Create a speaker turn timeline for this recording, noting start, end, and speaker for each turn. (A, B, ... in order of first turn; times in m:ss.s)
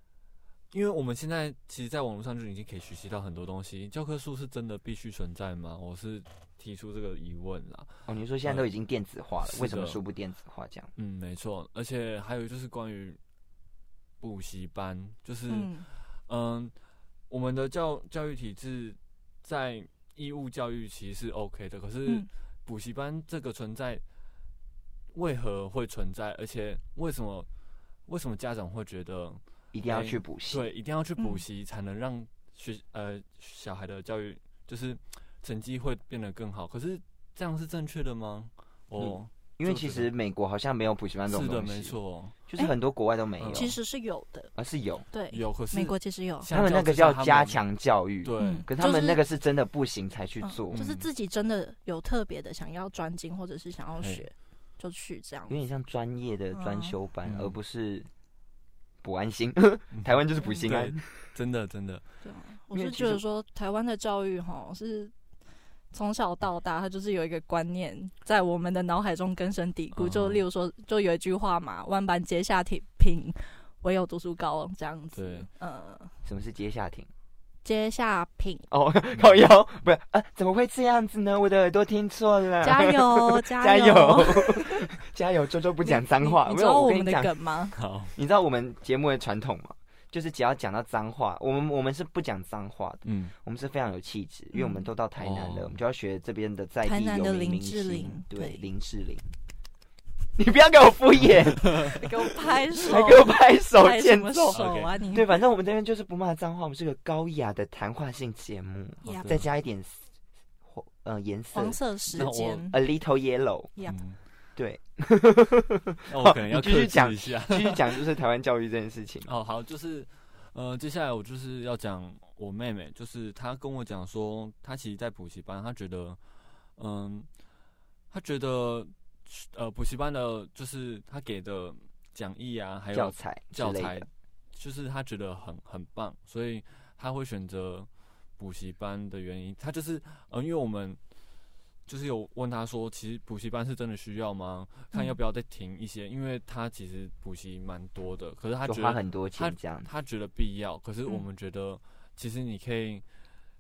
0:00.7-0:07.9 A
0:08.1-0:10.9 B
0:09.4-0:10.0 A
0:11.0-0:13.2 A
0:14.2-0:16.7 A
0:15.5-0:15.9 C
0:17.3-0:24.0 A
0:25.1-0:27.5 A
0:28.1-0:40.1 A
0:29.7-0:30.6 B
0:31.2-0:31.4 C
0:39.0-0:43.8 B
0:41.3-0:42.4 A
0:43.4-0:43.7 A
0:43.5-0:44.5 C
0:44.6-0:45.1 B
0:45.1-0:46.5 C
0:45.3-0:47.6 A
0:46.5-0:50.8 B
0:48.2-0:48.6 A
0:48.4-0:49.2 C
0:50.4-0:55.6 C
0:50.7-0:51.1 A
0:55.5-0:58.1 B
0:56.5-0:56.9 C
0:57.2-0:57.6 A
0:59.0-1:01.0 B
0:59.9-1:02.0 A
1:02.2-1:05.1 C
1:02.7-1:03.2 B
1:05.9-1:16.1 C
1:10.0-1:10.4 A
1:15.1-1:15.5 A
1:16.2-1:17.1 B
1:17.6-1:18.7 C
1:18.7-1:27.4 B
1:19.1-1:19.4 A
1:22.6-1:24.8 C
1:25.8-1:27.8 C
1:27.8-1:28.1 A
1:28.1-1:39.3 B
1:33.0-1:33.3 A
1:34.5-1:34.9 C
1:35.2-1:35.8 A
1:36.8-1:38.7 C
1:40.4-1:50.1 B
1:41.8-1:45.3 C
1:44.5-1:44.9 A
1:49.0-1:49.4 C
1:49.0-1:49.4 A
1:50.6-1:53.7 B
1:51.5-1:52.8 C
1:52.1-1:52.7 A
1:53.9-1:54.2 A
1:54.6-1:59.3 B
1:56.1-1:58.0 A
1:59.3-2:06.2 A
2:06.8-2:07.3 A
2:08.1-2:21.0 A
2:12.9-2:14.1 B
2:21.9-2:33.0 A
2:24.9-2:25.2 C
2:28.6-2:29.9 B